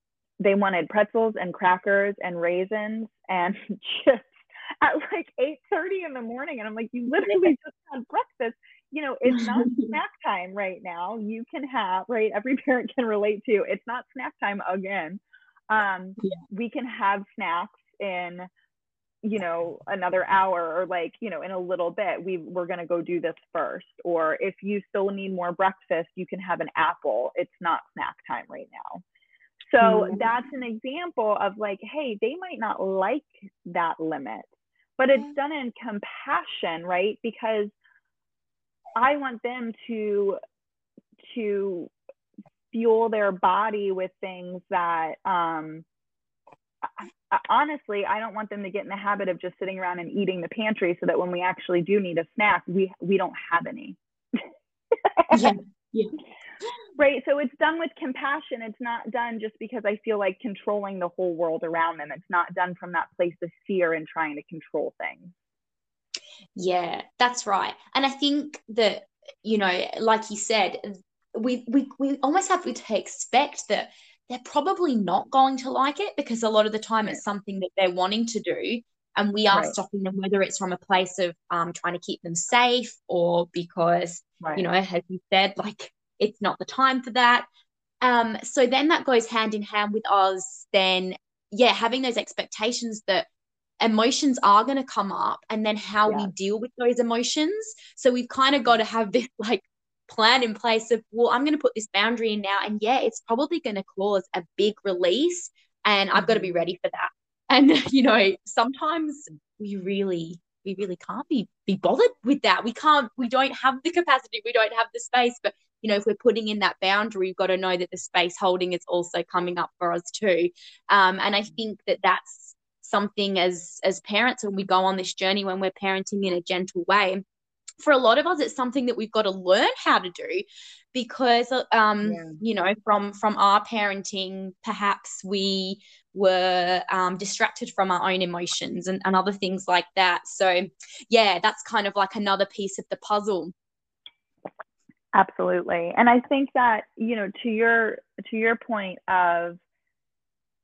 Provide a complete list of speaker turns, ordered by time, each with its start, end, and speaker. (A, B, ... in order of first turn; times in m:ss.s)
0:00.4-0:18.5 A
0:09.3-0:09.9 B
0:19.2-0:29.0 A
0:29.7-0:37.7 A
0:29.8-0:30.3 B
0:39.0-0:40.4 A
0:41.2-0:41.9 A
0:42.7-0:45.8 A
0:46.8-0:54.4 A
0:55.0-0:55.5 A
0:55.3-0:56.2 B
0:57.0-1:05.3 A
1:06.6-1:27.5 B
1:28.0-1:33.3 B
1:33.8-2:07.2 B
1:36.1-1:36.3 A
1:46.2-1:46.6 A
2:07.8-2:23.5 B
2:12.0-2:12.4 A
2:25.1-2:29.6 A